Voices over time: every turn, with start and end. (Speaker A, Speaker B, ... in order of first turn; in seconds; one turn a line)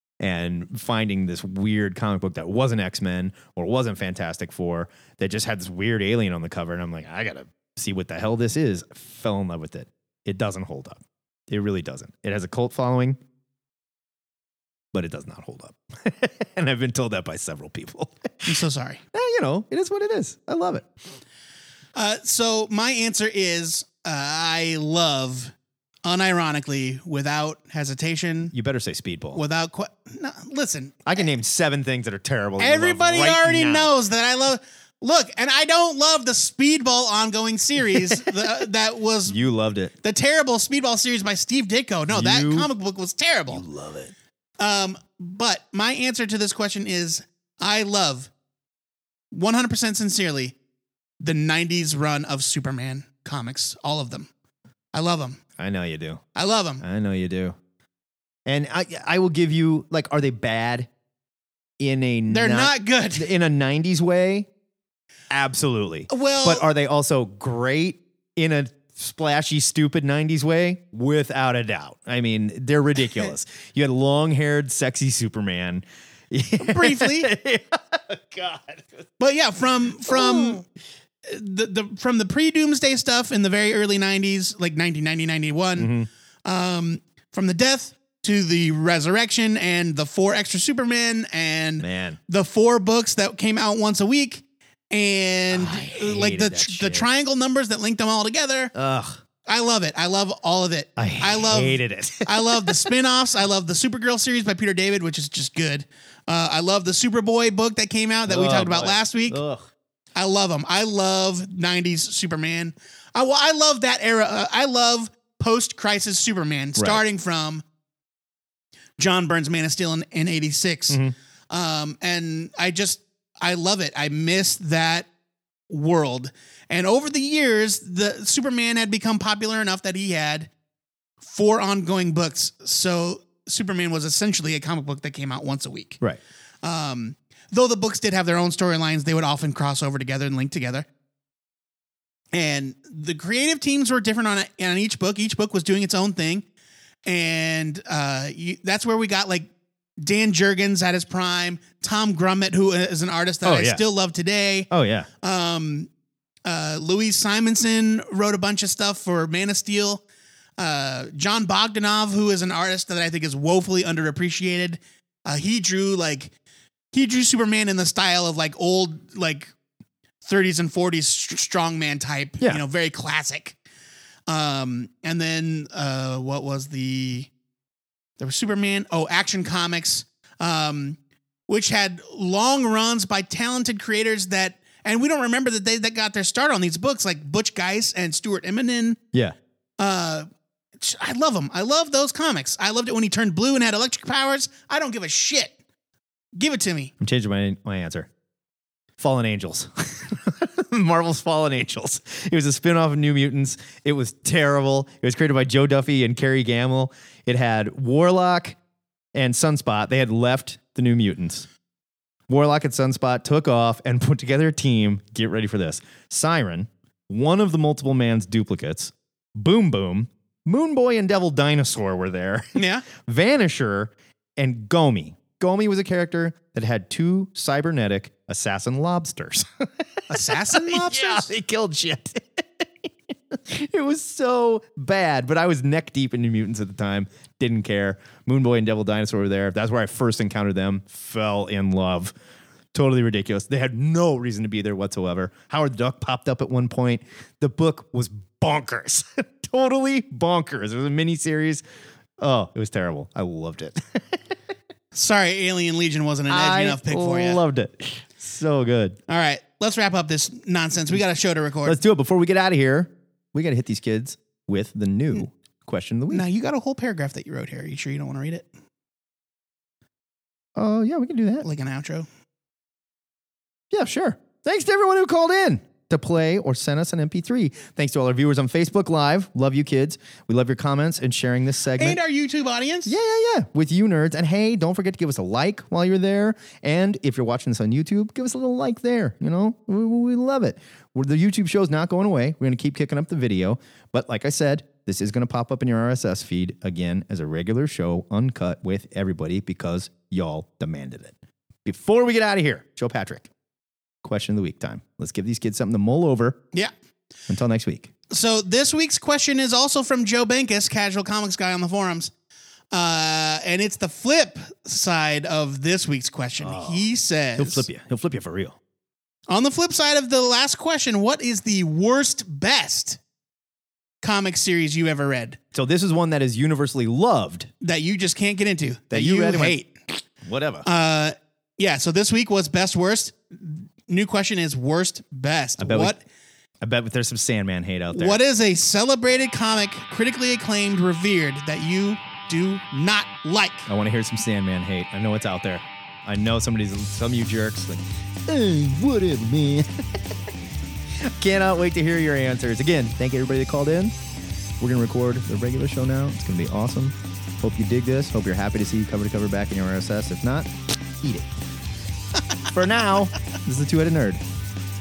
Speaker A: 0.2-13.2
Speaker A: 14.9-18.6
Speaker B: 18.5-19.0
Speaker A: 19.1-20.9
Speaker B: 22.0-25.5
Speaker B: 26.1-28.5
Speaker A: 28.5-29.4
Speaker B: 29.3-31.2
Speaker A: 31.1-33.9
Speaker B: 32.6-39.4
Speaker A: 37.8-38.5
Speaker A: 39.3-39.9
Speaker B: 40.0-43.6
Speaker A: 42.1-42.7
Speaker A: 43.5-44.1
Speaker B: 44.6-48.3
Speaker B: 49.3-50.5
Speaker B: 51.2-54.3
Speaker B: 54.9-55.4
Speaker A: 55.6-56.2
Speaker B: 56.4-56.8
Speaker A: 56.8-57.6
Speaker A: 58.5-60.9
Speaker A: 61.8-64.5
Speaker B: 62.3-63.3
Speaker A: 65.3-79.0
Speaker B: 66.1-66.7
Speaker B: 76.6-77.3
Speaker B: 79.2-80.6
Speaker A: 80.1-80.6
Speaker B: 81.3-85.9
Speaker A: 85.8-86.1
Speaker B: 86.5-98.7
Speaker A: 91.8-92.2
Speaker A: 95.5-97.1
Speaker A: 98.8-99.2
Speaker B: 99.5-109.4
Speaker A: 101.0-102.8
Speaker A: 108.3-109.7
Speaker B: 110.2-117.6
Speaker A: 116.8-117.0
Speaker B: 119.0-125.1
Speaker B: 125.7-130.5
Speaker B: 131.2-136.0
Speaker B: 136.6-140.8
Speaker B: 142.3-146.4
Speaker B: 147.1-149.5
Speaker B: 150.0-154.7
Speaker A: 153.4-153.8
Speaker A: 154.7-155.1
Speaker B: 155.2-155.9
Speaker B: 156.4-160.0
Speaker B: 160.6-166.3
Speaker B: 166.9-169.5
Speaker B: 170.2-173.6
Speaker B: 174.3-177.3
Speaker B: 178.2-181.0
Speaker B: 181.5-189.0
Speaker B: 189.8-190.3
Speaker B: 190.8-195.6
Speaker B: 196.4-196.9
Speaker A: 197.0-198.1
Speaker A: 199.0-208.6
Speaker A: 209.2-211.5
Speaker A: 212.3-242.1
Speaker B: 222.6-222.9
Speaker B: 230.1-231.3
Speaker A: 242.7-251.6
Speaker A: 252.2-254.3
Speaker B: 254.9-257.4
Speaker A: 256.3-259.0
Speaker B: 259.1-261.8
Speaker A: 261.6-266.3
Speaker B: 266.1-268.5
Speaker A: 270.6-271.5
Speaker B: 271.4-272.1
Speaker A: 273.7-282.0
Speaker B: 281.8-282.9
Speaker A: 282.9-303.3
Speaker A: 304.0-306.4
Speaker A: 307.3-307.9
Speaker B: 308.1-312.1
Speaker B: 312.7-317.7
Speaker A: 316.4-316.9
Speaker A: 317.4-318.6
Speaker B: 319.3-323.0
Speaker B: 324.0-325.4
Speaker A: 325.5-327.5
Speaker B: 327.6-329.8
Speaker A: 328.9-329.6
Speaker A: 330.2-330.7
Speaker B: 330.6-336.0
Speaker A: 335.6-336.0
Speaker A: 336.6-338.2
Speaker B: 337.9-343.7
Speaker A: 343.7-349.7
Speaker A: 351.0-353.9
Speaker A: 354.6-360.5
Speaker A: 361.0-361.3
Speaker A: 362.5-364.2